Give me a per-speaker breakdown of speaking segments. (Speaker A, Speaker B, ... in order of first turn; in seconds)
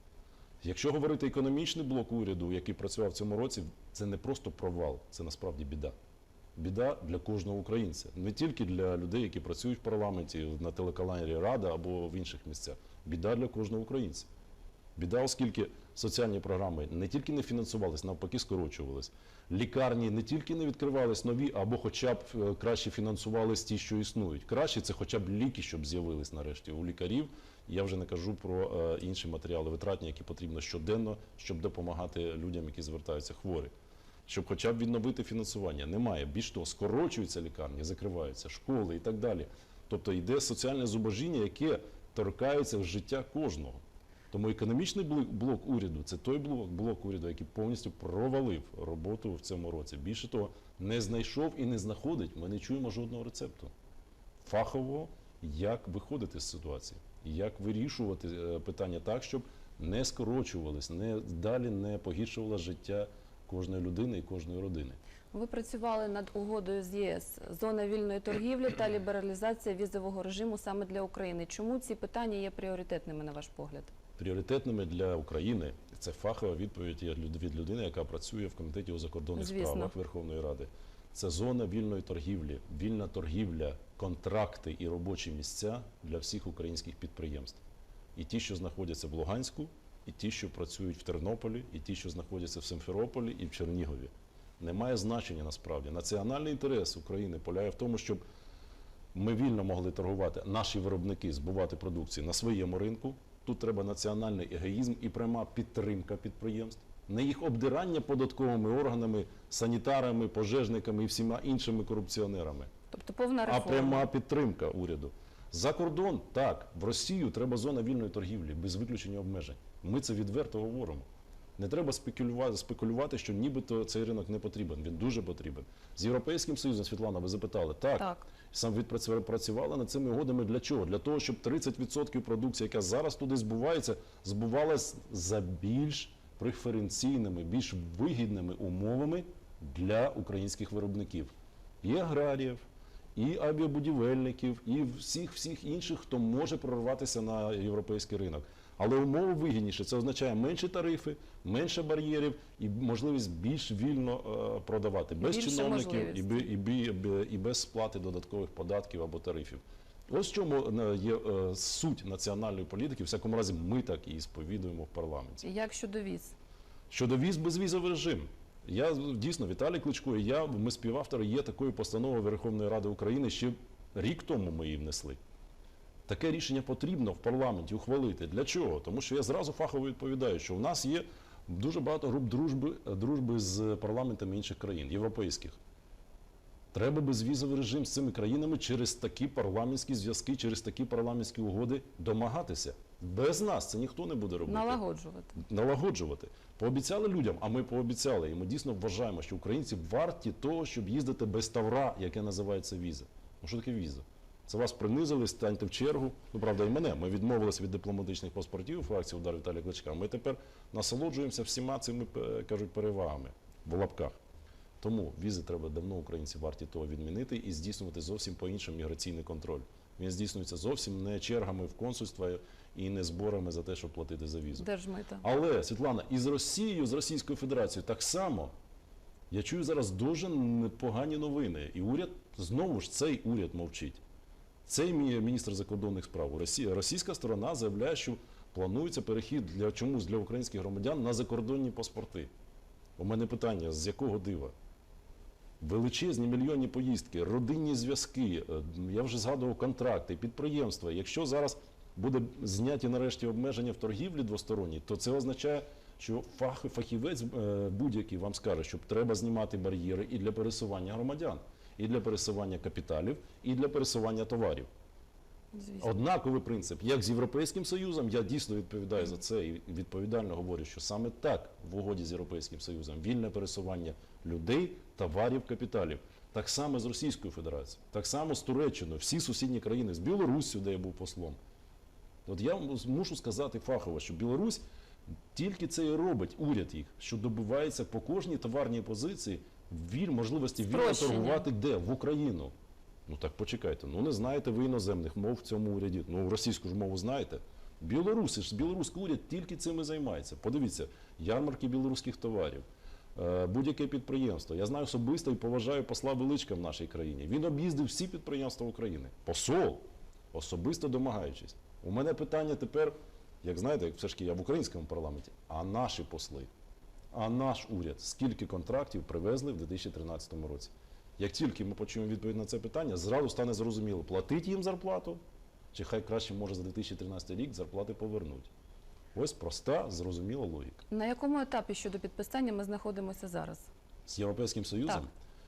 Speaker A: 0.6-5.9, 6.5-14.3, 14.9-33.7, 34.3-43.8, 44.3-53.7, 54.4-65.0, 74.2-87.6, 88.2-98.2, 99.1-112.7, 113.5-121.0, 121.6-142.6, 143.1-165.5, 166.9-175.2, 176.1-185.6, 186.7-194.8, 195.4-214.2, 214.8-224.7, 225.2-228.5, 229.3-234.0, 234.7-242.3, 243.0-244.5, 245.6-264.7, 265.8-281.4, 282.2-284.6, 285.3-292.5, 293.1-316.5, 317.1-325.2, 325.7-328.5, 329.1-330.8, 334.1-335.1
Speaker B: 65.3-73.9, 79.3-79.9, 112.9-114.1, 128.0-128.2, 155.2-156.5, 165.4-166.3, 194.4-195.3, 224.6-225.2, 265.5-265.9, 290.6-291.4, 330.9-333.7